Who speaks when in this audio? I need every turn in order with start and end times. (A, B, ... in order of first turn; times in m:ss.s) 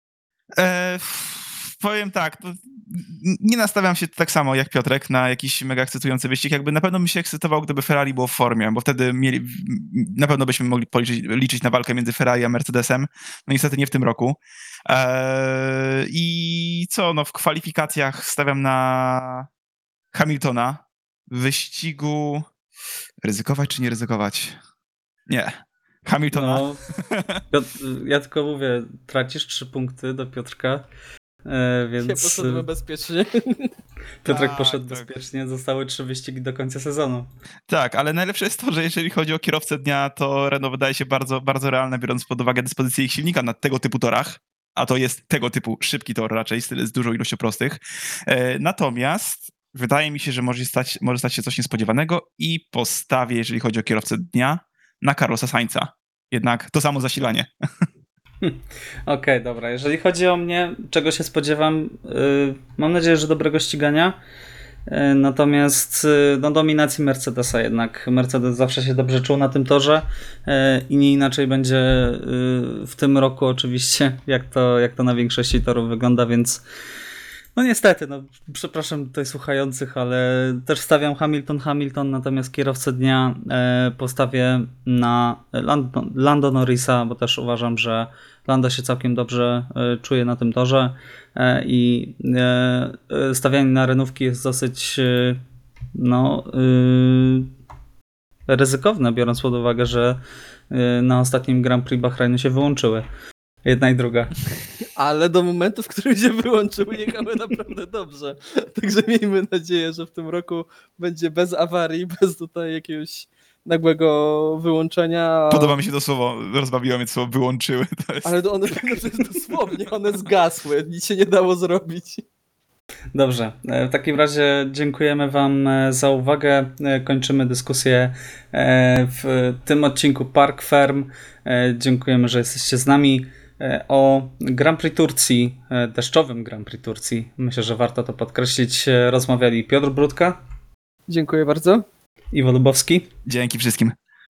0:00.6-0:19.5 A
0:20.1-0:22.4 A
0:23.2-0:24.6 A
0:25.3-0:27.4 A
0:26.3-0:26.8 B
0:27.5-0:30.8 B
0:31.4-0:32.6 B
0:32.0-0:33.7 C
0:34.2-0:37.3 B
0:34.3-0:35.2 A
0:37.7-0:57.5 A
0:58.4-1:04.2 B
1:04.9-1:16.6 B
1:17.6-1:35.4 B
1:35.9-1:37.5 B
1:38.5-1:40.2 B
1:40.7-1:43.0 B
1:43.6-1:44.3 B
1:45.0-1:55.8 C
1:55.5-1:59.6 A
1:58.2-2:02.2 C
2:03.1-2:20.4 B
2:21.1-2:21.8 C
2:22.3-2:23.1 B
2:23.2-2:23.9 A